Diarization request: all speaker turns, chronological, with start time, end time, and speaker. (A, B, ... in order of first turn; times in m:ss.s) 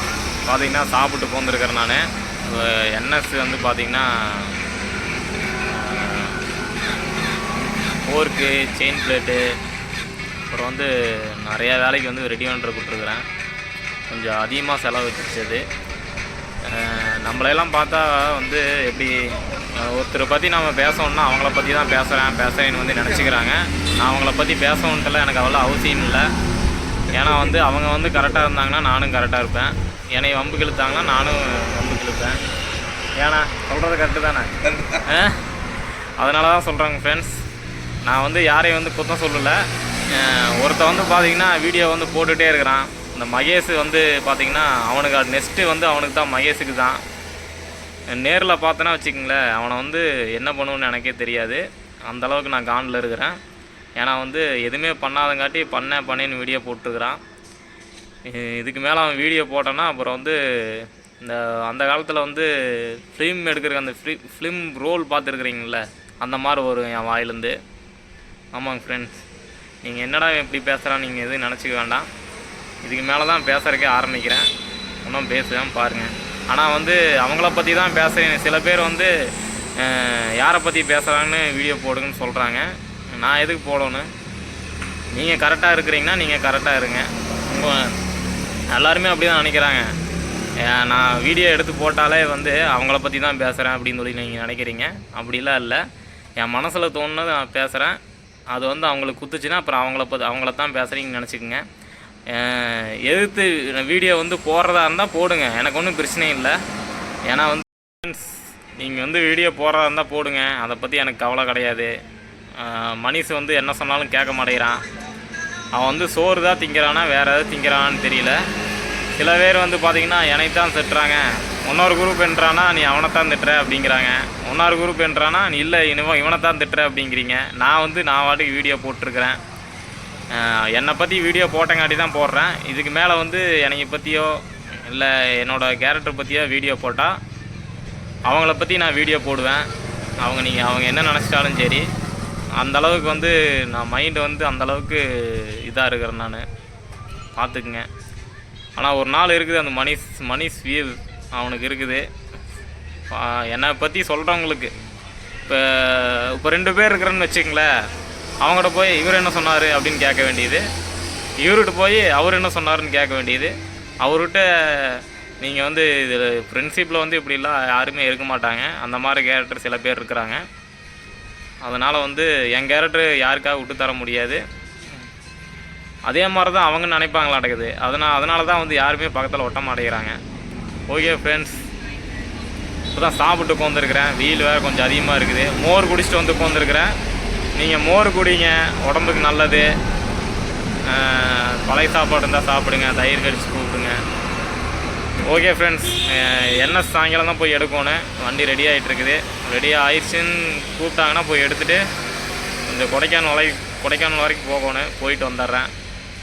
0:00.5-0:04.6 A
0:05.7-0:06.4 A
0:08.1-0:09.5 A
0:10.5-0:13.2 A
0:14.1-0:15.6 A
0:16.6-0:26.3 A
0:27.1-0:32.4 A
0:33.2-0:35.5 A
0:36.2-0:37.4 A
0:38.0-0:47.0 A
0:48.1-0:53.4 A
0:54.0-0:57.2 A
0:58.2-1:07.6 A
1:08.5-1:09.2 A
1:09.8-1:12.1 A
1:12.8-1:14.5 A
1:15.0-1:19.1 A
1:19.8-1:24.1 A
1:25.1-1:28.0 A
1:28.7-1:29.9 A
1:30.6-1:35.8 A
1:36.4-1:38.0 A
1:38.5-1:41.6 A
1:42.3-1:46.6 A
1:47.3-1:51.9 A
1:52.6-1:54.8 A
1:55.7-1:58.4 A
1:59.2-2:09.4 A
2:10.3-2:17.2 A
2:18.3-2:19.7 A
2:20.2-2:21.9 A
2:22.6-2:26.4 A
2:27.4-2:27.9 A
2:28.8-2:32.1 A
2:33.1-2:34.7 A
2:35.4-2:37.7 A
2:38.4-2:40.6 A
2:41.4-2:50.4 A
2:51.6-2:54.4 A
2:56.1-3:00.2 A
3:00.9-3:01.6 A
3:02.9-3:06.9 A
3:07.6-3:09.7 A
3:10.8-3:14.0 A
3:15.3-3:21.8 A
3:22.7-3:25.7 A